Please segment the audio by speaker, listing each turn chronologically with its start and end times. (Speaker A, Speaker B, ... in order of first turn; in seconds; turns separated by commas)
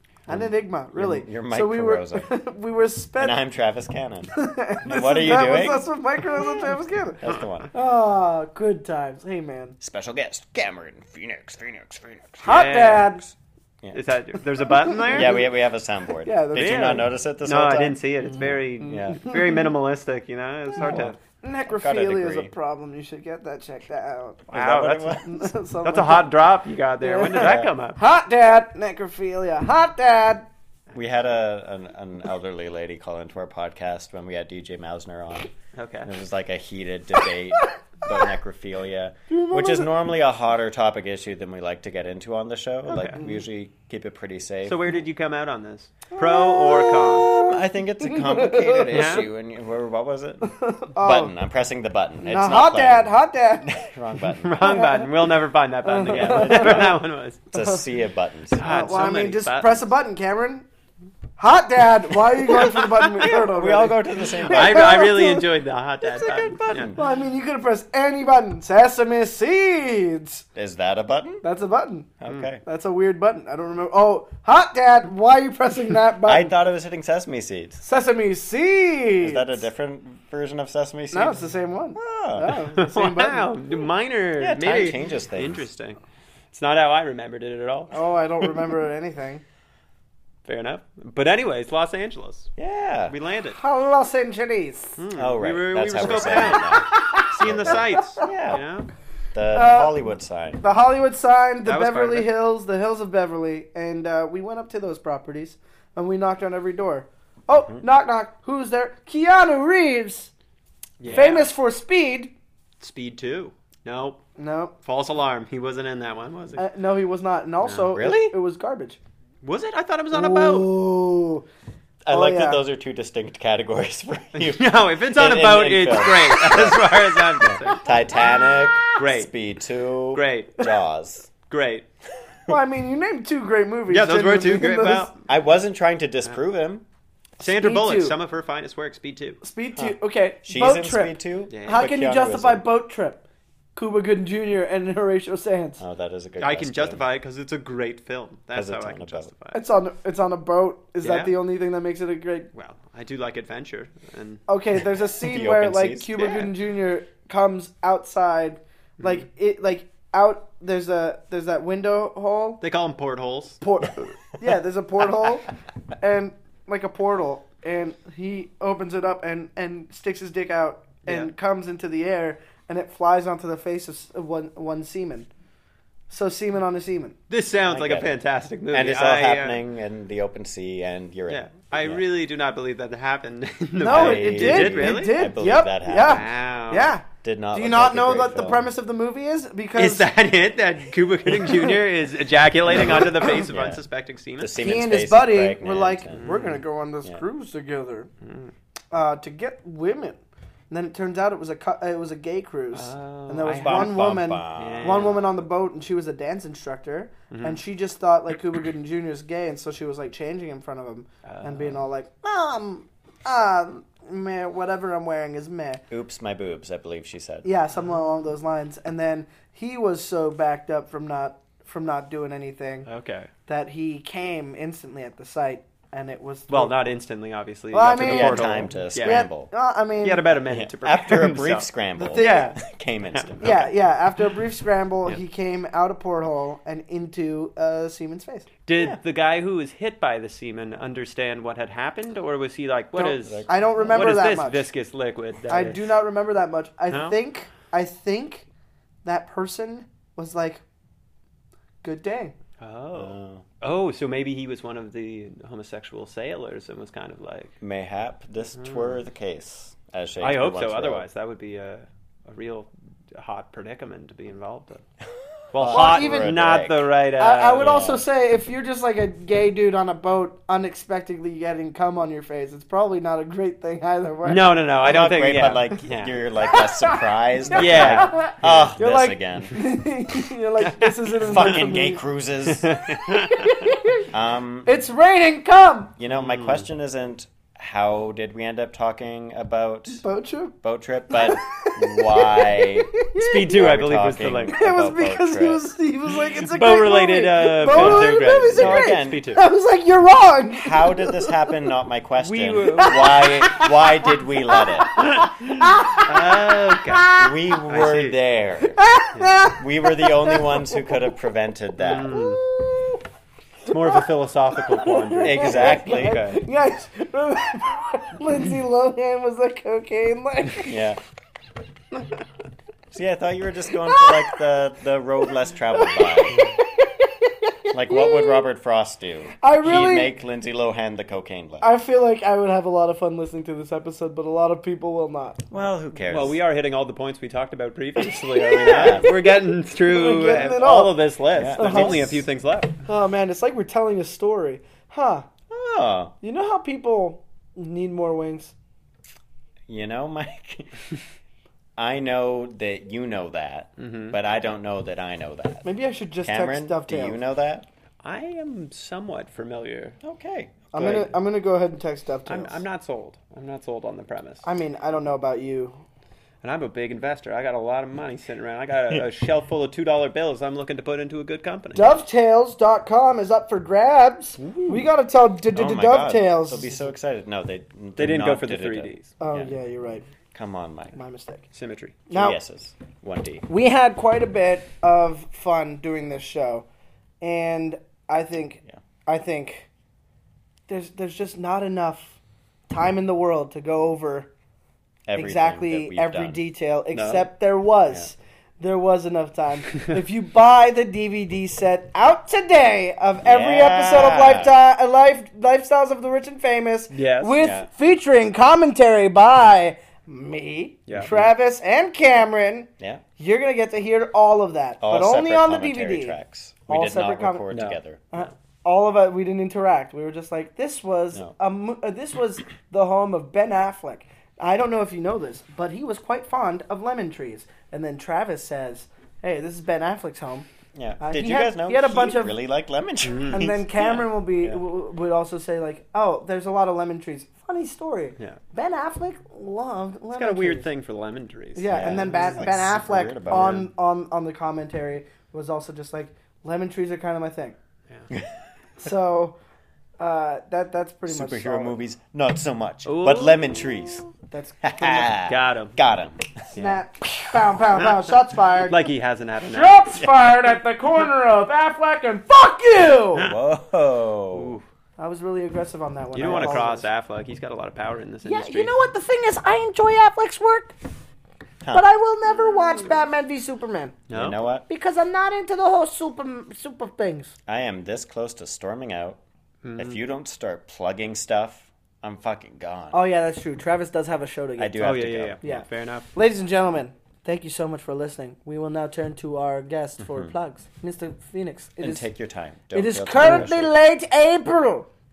Speaker A: 0.2-3.4, Speaker B: 0.3-2.3, Speaker B: 3.2-4.3, Speaker A: 4.3-9.8, Speaker B: 4.8-6.7, Speaker B: 7.2-7.7, Speaker B: 9.8-14.0, Speaker A: 12.4-13.2, Speaker C: 12.5-13.1, Speaker C: 13.9-15.4, Speaker A: 14.8-15.4, Speaker B: 15.1-19.3, Speaker A: 16.2-17.1, Speaker C: 16.5-21.2, Speaker A: 19.1-19.5, Speaker A: 20.8-24.4, Speaker B: 21.7-22.5, Speaker C: 24.5-25.3, Speaker B: 24.5-25.4, Speaker A: 25.2-26.3, Speaker C: 25.8-28.0, Speaker A: 27.0-30.5, Speaker B: 27.3-27.7, Speaker B: 30.9-35.5, Speaker C: 35.7-36.1, Speaker B: 36.0-44.8, Speaker A: 39.3-39.9, Speaker C: 42.9-43.2, Speaker C: 44.6-47.4, Speaker A: 46.1-49.2, Speaker B: 47.2-54.8, Speaker C: 48.9-49.2, Speaker A: 50.4-51.3, Speaker A: 52.2-53.8, Speaker C: 54.4-57.4, Speaker A: 54.6-55.1, Speaker A: 55.9-57.0, Speaker B: 56.1-59.0, Speaker C: 58.5-59.9, Speaker A: 58.6-60.6, Speaker A: 61.4-65.5, Speaker B: 63.2-65.2, Speaker C: 64.4-66.9, Speaker B: 66.0-67.0, Speaker A: 66.9-70.4, Speaker B: 70.5-71.4, Speaker A: 71.4-76.5, Speaker B: 72.2-72.6, Speaker B: 76.2-77.8, Speaker A: 77.8-79.6, Speaker B: 79.2-81.4, Speaker A: 81.1-83.5, Speaker B: 82.0-82.6, Speaker C: 82.8-86.0, Speaker B: 84.4-85.7, Speaker C: 86.5-88.5, Speaker A: 87.9-89.4, Speaker C: 90.4-92.5, Speaker B: 92.6-93.2, Speaker C: 93.1-93.6, Speaker A: 93.5-95.0, Speaker C: 95.0-98.9, Speaker B: 95.1-98.6, Speaker A: 96.3-98.3, Speaker B: 99.3-100.6, Speaker A: 99.5-100.0, Speaker A: 100.6-110.3, Speaker C: 101.6-102.3, Speaker B: 107.5-107.8, Speaker C: 111.0-111.5, Speaker A: 111.1-112.3, Speaker C: 112.8-114.2, Speaker A: 114.4-114.7, Speaker C: 114.8-116.6, Speaker A: 116.6-119.0, Speaker B: 117.6-118.3, Speaker C: 119.4-120.7, Speaker A: 120.1-121.5, Speaker B: 122.0-131.3, Speaker A: 122.1-122.6, Speaker C: 124.3-127.7, Speaker A: 127.6-129.0, Speaker C: 128.9-129.3, Speaker C: 130.1-130.7, Speaker C: 131.5-131.8, Speaker A: 132.5-135.1, Speaker C: 133.9-135.1, Speaker B: 135.2-136.8, Speaker A: 137.4-138.2, Speaker C: 137.4-139.4, Speaker A: 139.4-143.2, Speaker B: 139.8-142.6, Speaker C: 141.5-141.9, Speaker A: 143.7-145.8, Speaker B: 145.8-147.0, Speaker C: 146.4-149.6, Speaker B: 148.5-149.3, Speaker A: 149.5-152.5, Speaker C: 151.0-151.4, Speaker C: 152.5-154.4, Speaker A: 154.5-162.6, Speaker B: 155.1-156.5, Speaker C: 162.6-163.6, Speaker A: 163.6-165.4, Speaker A: 166.0-175.3, Speaker C: 171.1-171.3, Speaker A: 176.1-177.1, Speaker C: 177.3-179.6, Speaker B: 177.7-178.2, Speaker B: 178.7-182.0, Speaker C: 181.3-185.3, Speaker A: 183.8-190.1, Speaker B: 183.9-186.3, Speaker C: 185.9-186.9, Speaker B: 187.2-188.7, Speaker C: 189.8-194.5, Speaker B: 192.7-193.8, Speaker B: 194.4-196.3, Speaker A: 194.6-198.1, Speaker C: 196.1-196.6, Speaker C: 198.2-198.5, Speaker A: 198.9-215.8, Speaker C: 202.7-205.3, Speaker B: 203.6-205.2, Speaker C: 207.3-207.6, Speaker C: 211.2-211.8, Speaker B: 215.9-217.5, Speaker A: 217.4-222.9, Speaker C: 222.8-223.3, Speaker A: 223.5-226.8, Speaker C: 226.5-229.3, Speaker A: 227.7-230.2, Speaker B: 228.0-229.5, Speaker C: 230.0-232.6, Speaker B: 230.5-233.7, Speaker A: 232.0-232.5, Speaker C: 233.1-233.6, Speaker A: 233.4-238.5, Speaker C: 238.7-245.8, Speaker A: 242.9-244.7, Speaker B: 243.2-243.5, Speaker A: 245.5-248.5, Speaker C: 246.9-247.2, Speaker A: 249.0-250.6, Speaker A: 251.8-252.3, Speaker C: 252.6-257.5, Speaker B: 252.9-253.4, Speaker B: 257.6-261.1, Speaker C: 258.6-258.9, Speaker C: 260.2-264.8, Speaker C: 265.5-267.9, Speaker B: 265.5-266.8, Speaker A: 265.6-266.4, Speaker A: 267.1-274.6, Speaker B: 267.6-268.0, Speaker C: 274.2-276.1, Speaker B: 274.8-279.6, Speaker A: 276.4-282.0, Speaker C: 277.5-278.8, Speaker C: 280.6-281.6, Speaker B: 281.2-282.7, Speaker C: 282.4-283.5, Speaker A: 283.2-284.0, Speaker B: 284.1-284.7, Speaker A: 284.6-285.9, Speaker B: 286.0-290.0, Speaker C: 286.1-286.6, Speaker A: 290.0-290.6, Speaker B: 290.6-295.6, Speaker A: 291.1-293.4, Speaker C: 293.1-294.6, Speaker A: 294.5-301.5, Speaker C: 296.4-299.4, Speaker B: 297.7-299.3, Speaker B: 300.5-305.0, Speaker C: 302.2-303.5, Speaker A: 302.7-303.7, Speaker A: 304.6-307.3, Speaker C: 305.0-308.2, Speaker B: 307.1-308.8, Speaker A: 308.6-311.0, Speaker B: 309.6-312.2, Speaker C: 311.8-312.4, Speaker A: 312.1-313.0, Speaker A: 313.7-314.0, Speaker C: 313.7-316.4, Speaker A: 314.7-320.8, Speaker B: 315.2-316.2, Speaker B: 320.6-321.0, Speaker B: 322.9-326.5, Speaker A: 325.7-326.6, Speaker A: 327.5-328.4, Speaker B: 327.7-331.7, Speaker A: 329.4-330.1, Speaker A: 331.6-335.4, Speaker B: 335.5-336.4, Speaker C: 336.1-342.7, Speaker A: 338.4-342.2, Speaker B: 338.5-339.1, Speaker B: 341.3-342.2, Speaker A: 342.8-345.2, Speaker B: 345.5-346.1, Speaker A: 346.2-348.5, Speaker B: 349.7-350.8, Speaker B: 351.8-355.6, Speaker C: 353.8-354.1, Speaker A: 355.6-357.2, Speaker B: 356.2-357.7, Speaker C: 358.0-360.0, Speaker B: 360.0-360.7, Speaker A: 360.7-362.6, Speaker C: 360.8-361.1, Speaker C: 362.2-364.4, Speaker A: 364.4-365.8, Speaker C: 366.4-372.0, Speaker A: 371.7-376.8, Speaker C: 374.4-374.9, Speaker B: 375.5-379.6, Speaker C: 378.0-379.1, Speaker A: 379.2-380.0, Speaker B: 380.3-380.9, Speaker A: 380.9-381.4, Speaker C: 381.5-382.0, Speaker A: 382.1-382.4, Speaker B: 382.1-383.5, Speaker A: 383.5-386.6, Speaker A: 387.2-389.7, Speaker A: 390.7-392.2, Speaker A: 392.7-394.3, Speaker B: 395.1-396.4, Speaker A: 395.1-417.5, Speaker C: 396.9-397.3, Speaker B: 403.2-404.5, Speaker C: 406.9-407.4, Speaker B: 407.4-407.7, Speaker B: 414.8-418.2, Speaker C: 417.5-417.8, Speaker A: 418.1-430.4, Speaker B: 430.7-434.0, Speaker A: 431.0-432.4, Speaker C: 433.0-434.0, Speaker A: 433.3-440.7, Speaker C: 440.1-442.4, Speaker A: 441.5-447.6, Speaker B: 441.7-443.6, Speaker C: 443.3-443.7, Speaker A: 448.8-449.4, Speaker A: 450.0-451.8, Speaker B: 451.1-454.1, Speaker C: 452.8-453.6, Speaker A: 454.3-455.2, Speaker B: 454.6-456.4, Speaker C: 455.2-455.8, Speaker A: 456.5-458.9, Speaker C: 456.5-456.8, Speaker C: 458.6-460.1, Speaker A: 459.5-463.3, Speaker B: 463.2-464.5, Speaker C: 464.3-464.6, Speaker A: 465.0-466.9, Speaker C: 466.1-468.7, Speaker B: 466.2-466.6, Speaker A: 468.2-470.7, Speaker A: 471.7-474.0, Speaker C: 474.1-474.4, Speaker B: 474.1-474.6, Speaker A: 474.7-477.3, Speaker B: 477.4-479.2, Speaker C: 479.6-480.0, Speaker B: 479.8-483.0, Speaker A: 482.9-492.1, Speaker B: 484.6-485.6, Speaker C: 484.8-486.1, Speaker B: 490.0-490.3, Speaker B: 491.8-493.7, Speaker A: 492.7-494.9